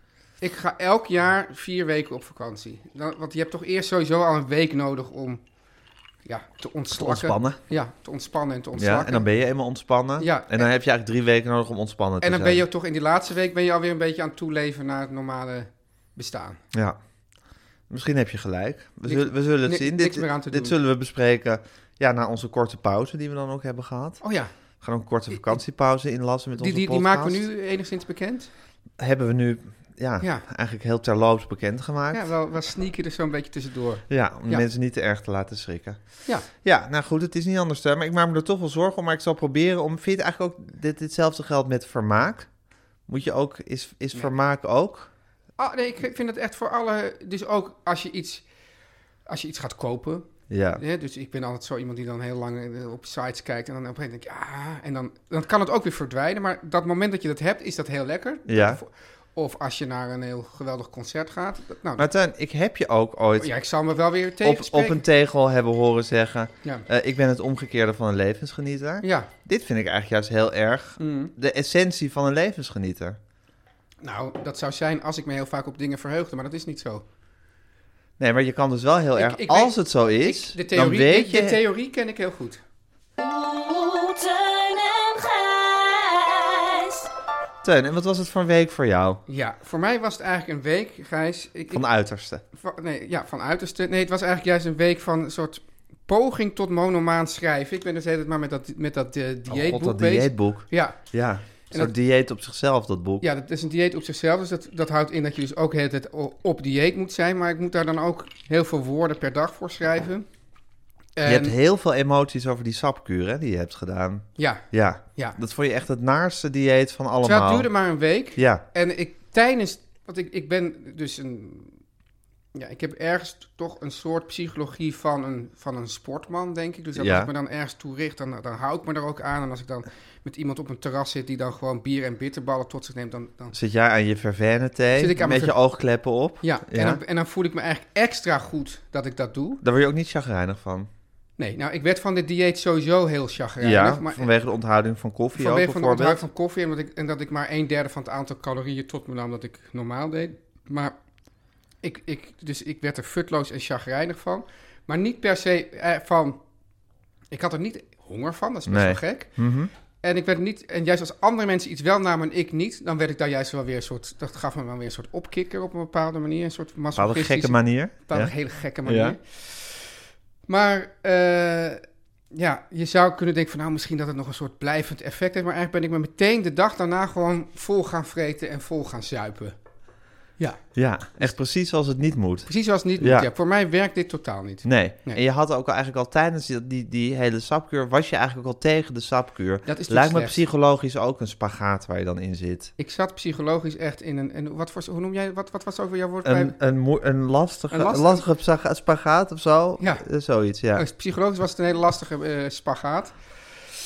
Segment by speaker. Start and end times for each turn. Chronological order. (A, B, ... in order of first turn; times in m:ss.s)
0:00.4-0:05.4 A
0:06.2-0:09.2 A
0:06.9-0:07.6 B
0:08.8-0:12.7 B
0:10.2-0:10.7 A
0:12.2-0:16.6 A
0:16.7-0:17.0 B
0:17.9-0:24.2 B
0:19.1-0:20.8 A
0:24.2-0:24.5 A
0:24.8-0:27.5 B
0:25.3-0:25.6 A
0:26.6-0:28.5 A
0:29.0-0:32.2 B
0:32.1-0:34.6 A
0:34.1-0:36.0 B
0:36.5-0:42.5 B
0:43.1-0:45.1 B
0:45.6-0:48.4 A
0:49.3-1:02.1 A
0:50.5-0:50.8 B
0:58.5-0:58.8 B
1:02.0-1:03.5 B
1:03.4-1:05.0 A
1:04.4-1:13.2 B
1:09.0-1:09.3 A
1:11.0-1:11.3 A
1:14.0-1:17.0 A
1:18.2-1:21.6 B
1:19.2-1:22.6 A
1:23.2-1:27.1 C
1:27.6-1:29.2 B
1:29.3-1:31.8 A
1:31.7-1:32.4 B
1:32.6-1:41.0 A
1:39.5-1:43.2 B
1:43.2-1:50.2 A
1:51.2-1:51.6 A
1:51.2-1:57.7 B
1:54.4-1:54.6 A
1:57.2-2:01.8 A
1:58.4-1:58.6 B
2:02.5-2:13.5 A
2:07.0-2:07.3 B
2:13.5-2:17.0 B
2:15.0-2:15.6 A
2:16.4-2:19.6 A
2:19.6-2:20.9 B
2:21.4-2:24.3 A
2:23.6-2:26.2 B
2:25.4-2:30.9 A
2:31.8-2:36.4 A
2:37.3-2:39.3 A
2:38.7-2:39.7 B
2:40.0-2:49.9 A
2:47.0-2:48.3 B
2:48.8-2:49.2 B
2:50.5-2:59.6 A
3:00.8-3:03.3 B
3:02.5-3:05.2 A
3:04.6-3:12.7 B
3:09.7-3:10.4 A
3:12.8-3:16.6 A
3:16.2-3:20.9 B
3:17.7-3:18.2 A
3:19.8-3:20.0 A
3:20.8-3:23.2 A